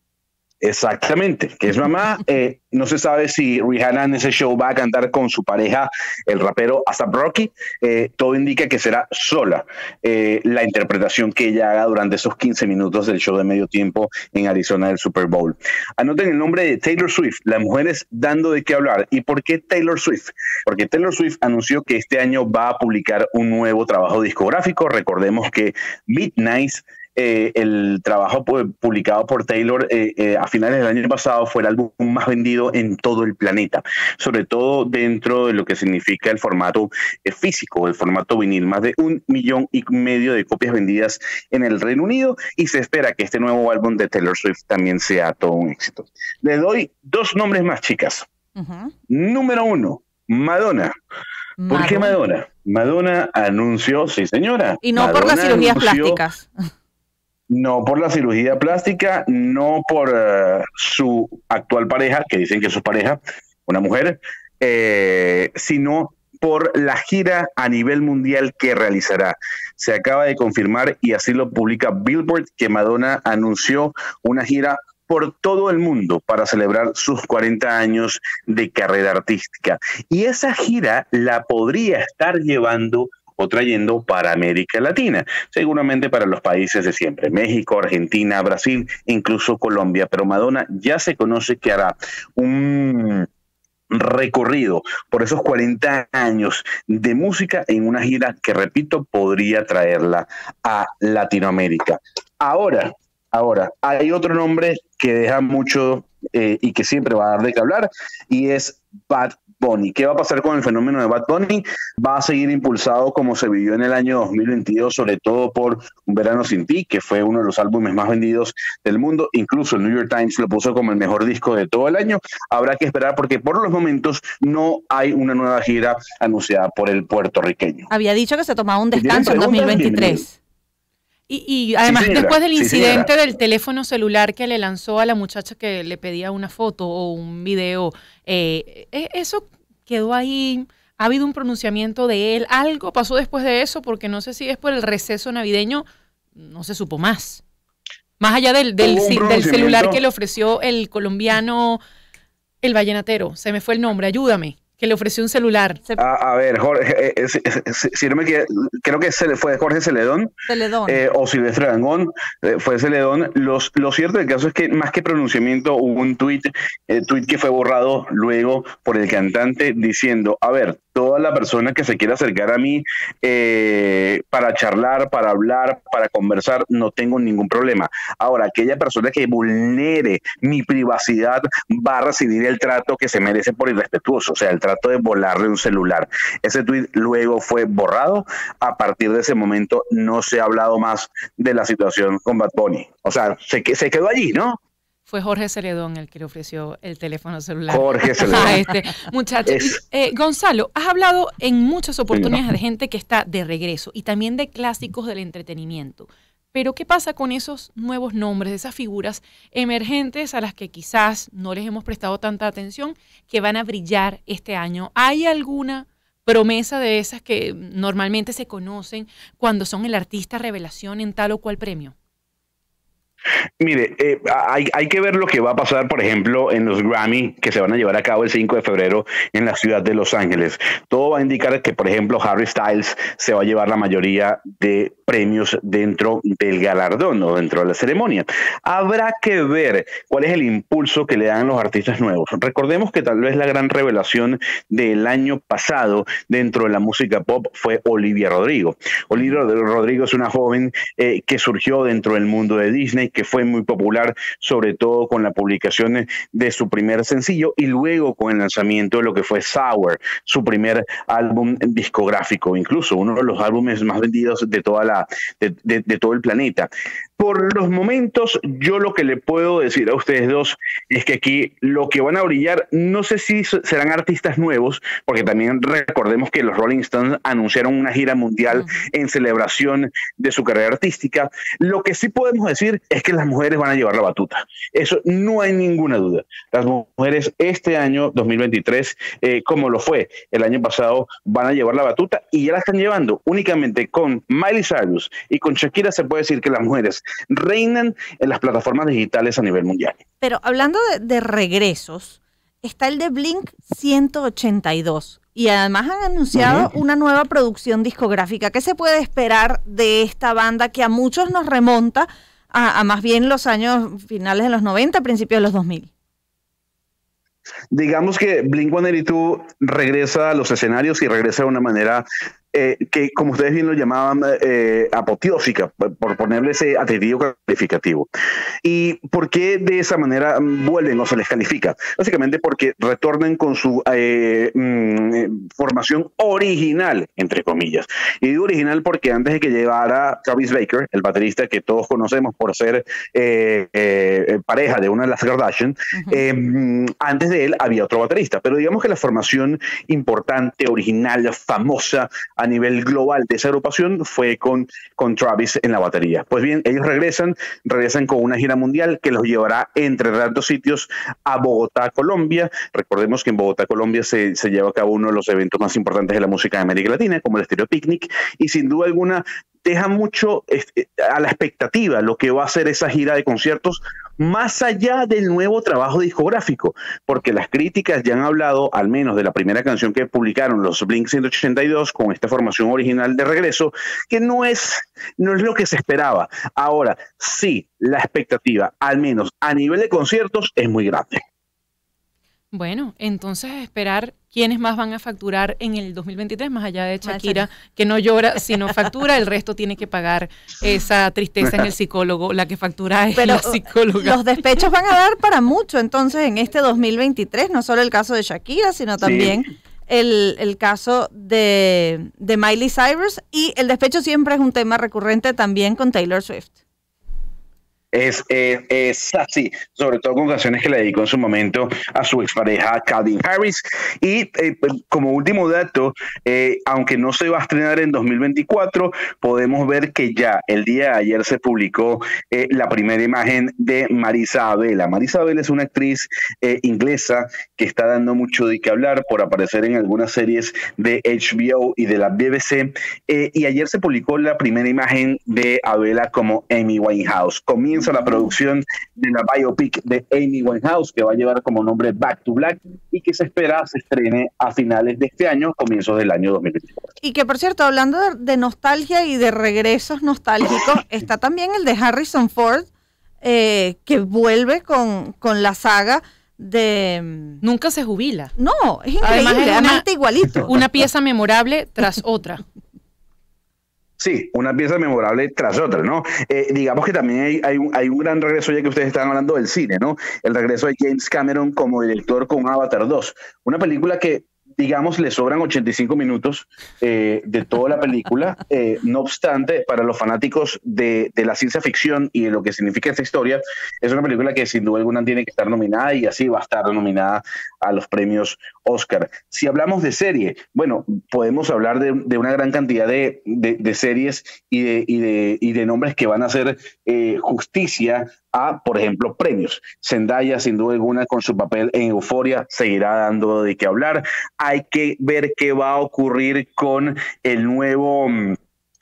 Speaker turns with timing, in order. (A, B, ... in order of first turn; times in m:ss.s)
0:00.6-0:48.3 A
0:48.6-0:48.9 B
0:49.1-0:50.9 A
0:51.6-0:52.2 B
0:51.7-0:56.2 A
0:54.8-0:56.5 B
0:57.5-1:33.3 A
1:33.9-2:07.9 A
2:07.9-2:10.4 B
2:08.9-2:10.3 A
2:11.3-2:27.4 C
2:11.8-2:13.1 A
2:28.2-2:31.8 C
2:28.8-2:30.0 A
2:32.6-2:35.8 C
2:36.0-2:40.3 A
2:40.5-2:41.0 B
2:40.9-3:14.6 A
3:15.1-3:41.9 C
3:17.7-3:18.6 A
3:19.5-3:19.8 A
3:43.6-5:00.0 A
5:00.2-5:15.9 B
5:06.4-5:06.7 A
5:17.7-5:28.1 A
5:28.6-6:31.2 A
5:45.9-5:46.2 B
6:32.5-6:44.2 C
6:37.0-6:37.4 B
6:43.2-6:56.5 B
6:49.0-6:49.4 A
6:57.9-7:36.8 A
7:37.0-7:42.7 B
7:43.2-7:47.4 B
7:47.4-7:48.3 C
7:48.4-7:50.5 B
7:49.0-7:52.4 C
7:54.0-8:38.4 A